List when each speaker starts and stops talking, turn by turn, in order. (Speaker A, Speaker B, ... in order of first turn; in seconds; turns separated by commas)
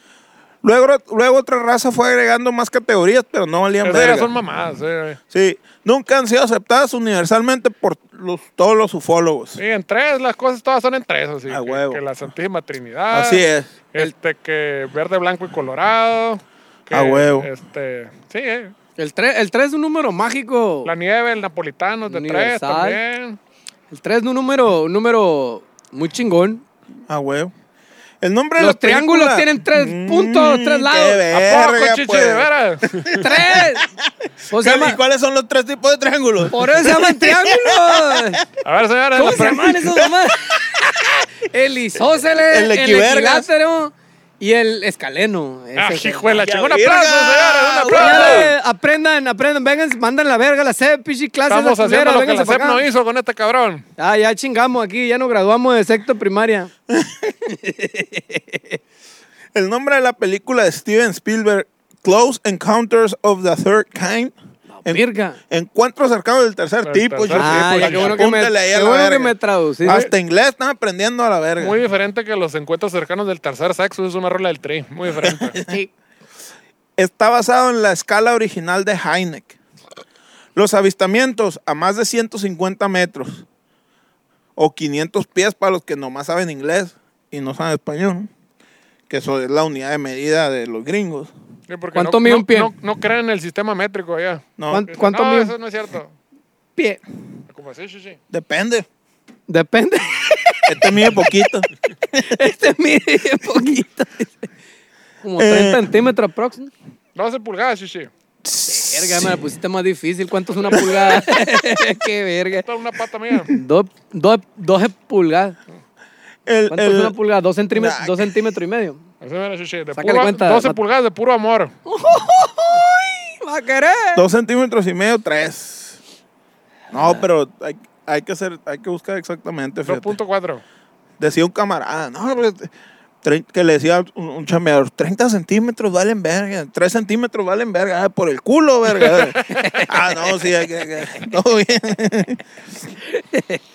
Speaker A: 0.6-4.3, Speaker B: 3.8-5.2, Speaker A: 5.3-9.6, Speaker B: 9.6-18.7, Speaker A: 11.5-12.0, Speaker A: 13.1-13.7, Speaker A: 16.9-17.5, Speaker C: 19.0-20.9, Speaker B: 20.9-23.4, Speaker C: 22.1-23.0, Speaker C: 23.9-26.6, Speaker A: 27.1-27.5, Speaker A: 28.2-38.4, Speaker C: 28.6-31.2, Speaker B: 31.3-33.2, Speaker C: 33.1-33.9, Speaker C: 34.5-35.0, Speaker C: 36.5-38.4, Speaker B: 38.6-39.8, Speaker C: 39.2-40.6, Speaker A: 39.7-41.1, Speaker C: 41.4-46.3, Speaker A: 42.5-43.5, Speaker B: 45.8-48.5, Speaker A: 46.3-48.5, Speaker C: 47.9-52.8, Speaker B: 51.5-53.9, Speaker C: 54.0-56.7, Speaker A: 56.9-57.5, Speaker C: 57.6-58.8, Speaker A: 59.5-64.3, Speaker C: 64.7-65.4, Speaker A: 64.8-71.8, Speaker B: 66.8-68.3, Speaker C: 67.3-70.0, Speaker B: 71.6-75.6, Speaker A: 75.2-75.8, Speaker A: 77.0-79.6, Speaker A: 80.6-83.5, Speaker A: 84.6-88.3, Speaker A: 89.1-91.3, Speaker B: 91.7-96.1, Speaker C: 92.0-92.7, Speaker A: 94.6-94.9, Speaker C: 94.7-95.5, Speaker C: 96.8-97.0, Speaker B: 97.5-98.2, Speaker A: 98.3-98.9, Speaker C: 99.5-101.1, Speaker A: 100.7-101.7, Speaker C: 102.1-104.5, Speaker C: 105.2-106.7, Speaker A: 105.4-105.9, Speaker B: 107.2-108.1, Speaker A: 108.4-109.4, Speaker C: 108.7-112.7, Speaker B: 110.7-111.2, Speaker B: 112.7-113.5, Speaker C: 113.5-115.6, Speaker A: 116.5-117.2, Speaker C: 116.7-119.0, Speaker A: 117.7-118.3, Speaker B: 119.2-121.7, Speaker C: 120.0-120.8, Speaker C: 121.9-124.2, Speaker A: 124.2-126.0, Speaker A: 126.9-130.2, Speaker B: 129.9-130.6, Speaker A: 131.2-132.7, Speaker A: 133.2-142.4, Speaker B: 139.0-139.8, Speaker C: 143.1-143.6